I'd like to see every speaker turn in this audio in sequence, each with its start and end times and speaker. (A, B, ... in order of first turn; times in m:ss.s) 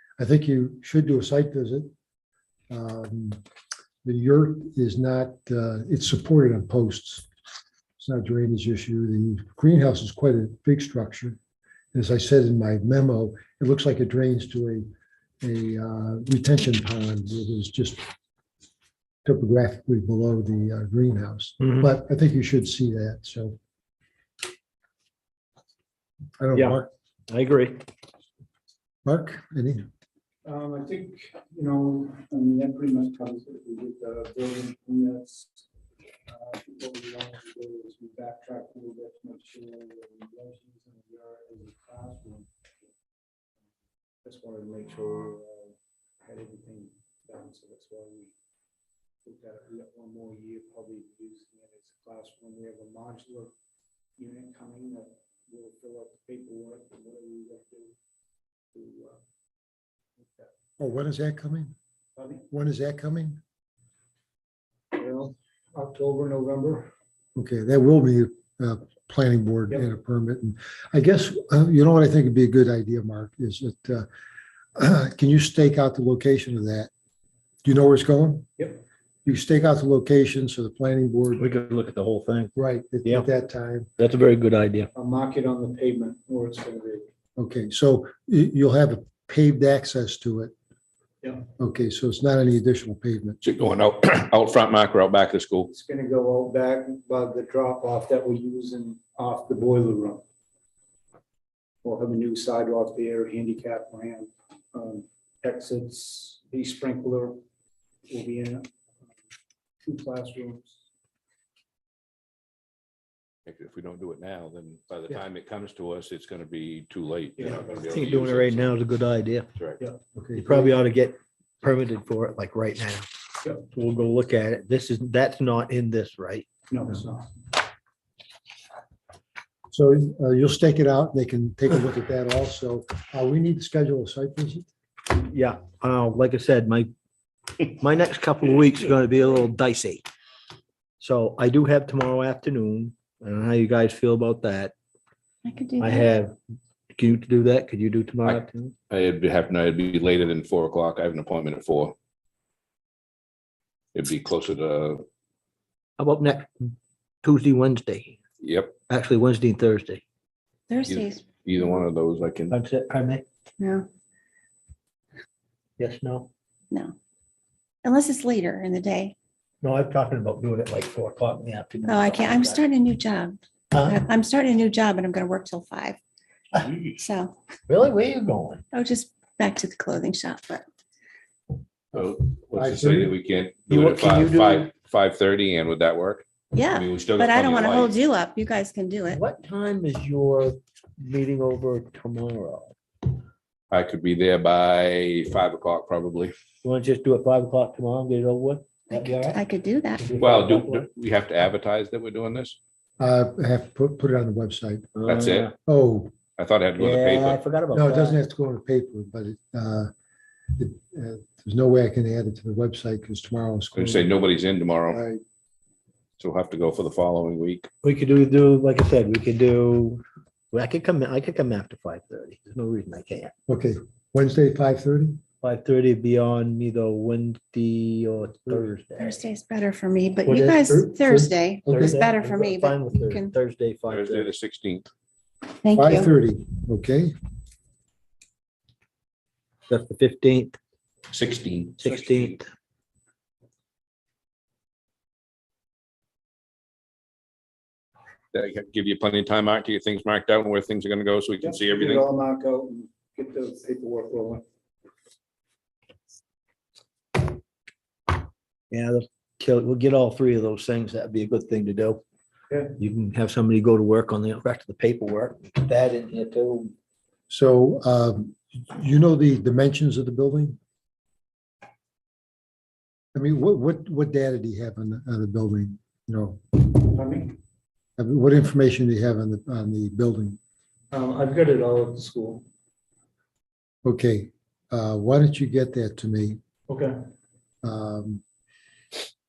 0:00.2-0:01.9 A
0:02.7-0:03.4 A
0:04.0-0:07.3 A
0:08.0-0:11.4 A
0:11.9-0:14.9 A
0:15.4-0:18.0 A
0:19.2-0:23.6 A
0:21.6-0:21.9 B
0:26.4-0:26.9 A
0:26.5-0:27.8 B
0:29.0-0:29.8 A
0:30.4-0:35.6 C
0:36.3-0:42.5 C
0:44.2-0:48.3 C
0:49.2-0:53.5 C
0:54.2-0:58.0 C
0:58.7-0:59.2 C
1:00.2-1:00.5 C
1:00.8-1:01.7 A
1:02.2-1:02.4 C
1:02.5-1:03.4 A
1:04.9-1:06.9 C
1:07.4-1:14.1 A
1:14.8-1:16.9 A
1:17.6-1:18.5 A
1:19.2-1:21.4 A
1:21.4-1:23.3 B
1:22.6-1:23.9 A
1:24.0-1:24.9 B
1:25.0-1:27.1 C
1:27.4-1:30.5 A
1:31.6-1:33.4 A
1:33.4-1:35.7 D
1:35.7-1:40.2 C
1:41.8-1:47.4 C
1:48.1-1:48.7 C
1:49.8-1:50.8 C
1:53.4-1:58.7 D
1:57.9-1:59.5 B
2:00.1-2:00.7 A
2:00.4-2:03.1 B
2:03.7-2:06.5 B
2:06.7-2:07.3 C
2:09.7-2:14.7 A
2:15.1-2:16.9 B
2:17.8-2:20.0 B
2:21.0-2:24.7 B
2:25.4-2:26.1 E
2:25.8-2:26.4 B
2:26.9-2:28.7 B
2:28.2-2:31.9 D
2:33.9-2:35.0 D
2:36.0-2:38.2 B
2:38.4-2:38.8 D
2:38.9-2:40.0 B
2:40.7-2:41.2 E
2:40.9-2:42.5 D
2:42.5-2:43.2 B
2:43.6-2:43.8 E
2:45.8-2:46.3 B
2:47.8-2:49.1 E
2:49.6-2:52.6 B
2:51.9-2:56.0 E
2:53.7-2:54.0 B
2:56.6-2:56.9 D
2:57.0-2:57.3 E
2:57.7-2:58.6 B
2:58.7-3:00.6 E
3:01.9-3:03.1 A
3:01.9-3:07.9 D
3:03.7-3:04.7 B
3:06.5-3:09.2 E
3:09.1-3:12.7 B
3:13.7-3:16.3 D
3:16.6-3:19.4 B
3:18.9-3:20.0 E
3:20.0-3:20.8 B
3:20.2-3:22.6 D
3:23.0-3:24.9 A
3:24.9-3:25.5 B
3:25.0-3:25.5 D
3:25.6-3:26.1 A
3:26.4-3:27.4 D
3:26.8-3:28.2 B
3:27.7-3:29.9 A
3:30.5-3:34.1 A
3:33.7-3:35.0 D
3:34.9-3:35.2 A
3:36.2-3:37.7 D
3:37.8-3:43.3 B
3:43.5-3:45.2 A
3:45.4-3:49.2 B
3:49.0-3:53.3 E
3:50.2-3:54.3 B
3:51.6-3:52.0 A
3:53.9-3:54.8 D
3:55.6-3:56.1 E
3:55.7-3:57.1 A
3:59.7-4:00.6 B
4:01.1-4:02.4 D
4:01.8-4:02.4 B
4:08.3-4:12.1 D
4:12.0-4:14.4 C
4:18.7-4:22.0 B
4:22.8-4:26.7 B
4:27.3-4:30.6 A
4:33.1-4:36.5 A
4:36.9-4:37.3 C
4:38.0-4:40.4 A
4:40.9-4:42.4 C
4:43.8-4:46.4 A
4:47.6-4:48.2 A